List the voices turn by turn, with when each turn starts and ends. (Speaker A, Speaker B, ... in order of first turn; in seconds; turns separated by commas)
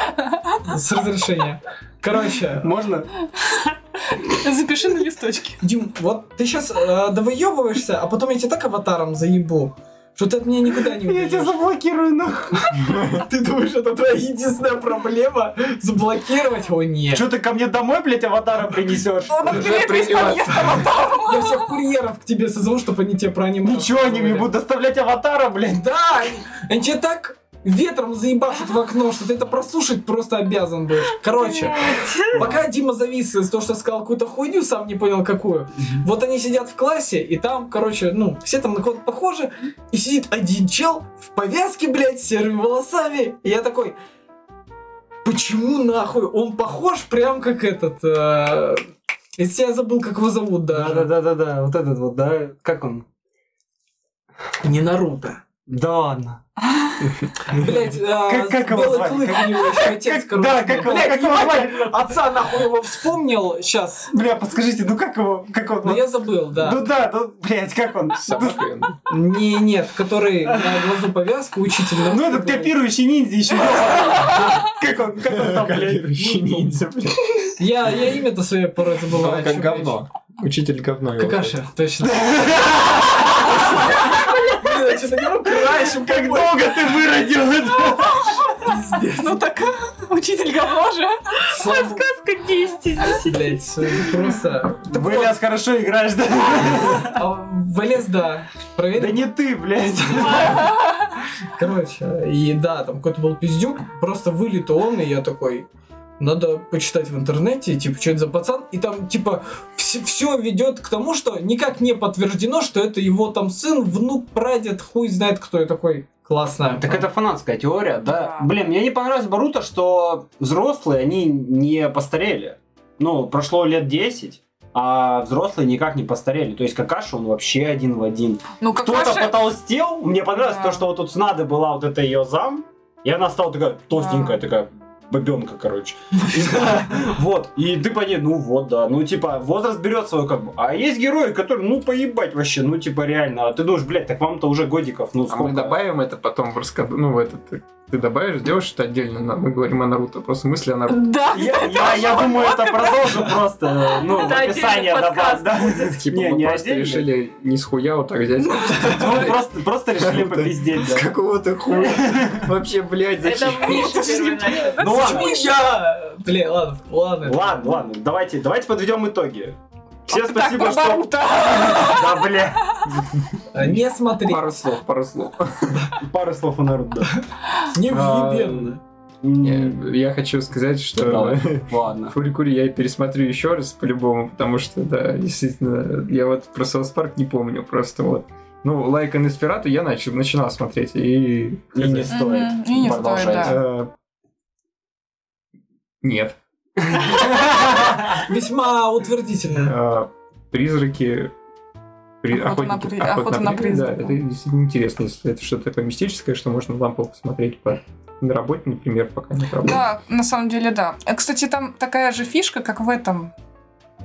Speaker A: 0.3-0.6, Speaker B: 0.6-2.7, Speaker C: 2.6-3.1, Speaker A: 3.4-5.6, Speaker B: 5.6-11.6, Speaker C: 10.9-12.8, Speaker B: 12.9-17.3, Speaker C: 17.1-19.6, Speaker A: 19.3-21.7, Speaker B: 19.4-24.5, Speaker D: 19.5-20.6, Speaker C: 23.6-25.9, Speaker B: 25.7-43.9, Speaker E: 31.5-32.4, Speaker C: 32.3-32.6, Speaker B: 45.2-48.8, Speaker B: 49.4-51.1, Speaker C: 50.7-53.0, Speaker B: 54.6-55.4, Speaker C: 55.7-56.4, Speaker B: 57.4-64.1, Speaker C: 57.9-62.2, Speaker C: 64.1-68.7, Speaker B: 65.8-66.8, Speaker D: 68.1-69.0, Speaker B: 69.1-72.7, Speaker C: 70.5-70.8, Speaker C: 72.0-76.8, Speaker D: 75.3-77.5, Speaker B: 77.6-80.0, Speaker D: 79.1-81.5, Speaker B: 81.2-82.4, Speaker C: 82.0-83.9, Speaker B: 83.5-86.8, Speaker C: 85.5-88.4, Speaker A: 87.8-91.5, Speaker B: 88.5-89.4, Speaker B: 91.5-92.0, Speaker E: 91.6-93.5, Speaker B: 93.2-95.3, Speaker C: 94.9-97.2, Speaker B: 97.0-99.3, Speaker C: 98.9-100.7, Speaker B: 101.5-105.7, Speaker B: 106.2-117.0, Speaker C: 116.8-145.8, Speaker A: 118.0-118.5, Speaker A: 128.6-129.6, Speaker A: 130.5-130.8, Speaker A: 133.9-134.4, Speaker D: 145.3-151.1, Speaker A: 150.9-153.3, Speaker C: 151.3-157.1, Speaker E: 154.0-156.0, Speaker D: 155.9-159.4, Speaker C: 158.8-161.1, Speaker D: 160.0-164.0, Speaker C: 161.7-162.5, Speaker E: 163.2-164.8, Speaker A: 163.5-165.5, Speaker B: 163.6-167.6, Speaker C: 164.8-165.4, Speaker C: 167.2-172.8, Speaker A: 170.1-172.8, Speaker D: 172.9-175.9, Speaker B: 173.5-174.5, Speaker C: 176.0-177.1, Speaker B: 177.7-178.8, Speaker C: 177.8-179.8, Speaker D: 179.4-192.1, Speaker C: 180.9-182.1, Speaker C: 191.7-193.6, Speaker A: 192.1-193.6, Speaker D: 192.8-193.9, Speaker D: 196.0-197.5, Speaker C: 197.3-198.0, Speaker B: 198.1-199.7, Speaker D: 199.6-201.3, Speaker D: 202.2-209.8, Speaker A: 202.3-204.2, Speaker A: 209.6-213.3